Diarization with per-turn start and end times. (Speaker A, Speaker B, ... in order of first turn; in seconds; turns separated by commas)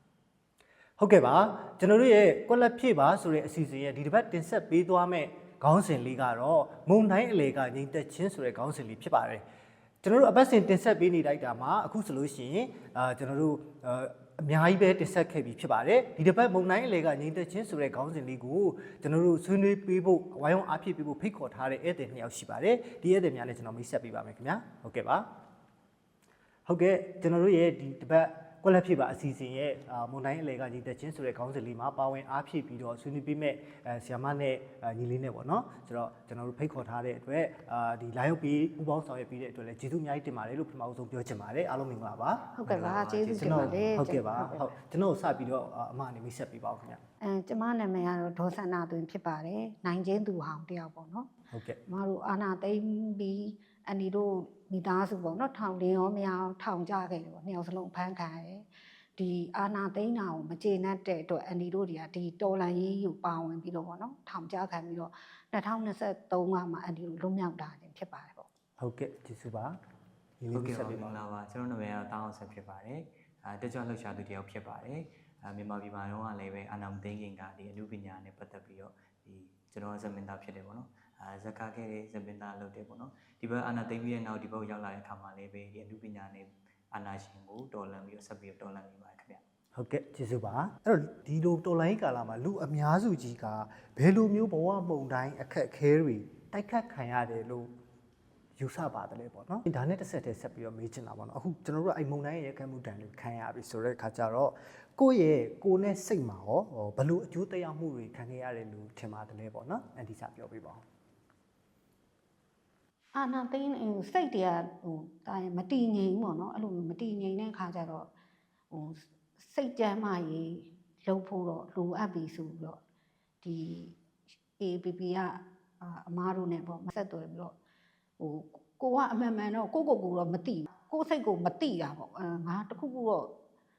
Speaker A: 1.0-9.4, Speaker A: 10.0-25.2, Speaker A: 26.6-47.0, Speaker B: 42.6-44.6, Speaker C: 42.8-43.9, Speaker B: 47.2-51.3, Speaker A: 51.5-51.8, Speaker B: 51.9-68.5, Speaker A: 68.8-69.8, Speaker A: 70.4-71.1, Speaker C: 70.5-89.4, Speaker A: 89.8-97.7, Speaker A: 98.6-110.8, Speaker B: 113.1-118.1, Speaker B: 118.7-122.8, Speaker B: 123.4-124.0, Speaker B: 124.6-127.5, Speaker B: 128.2-133.3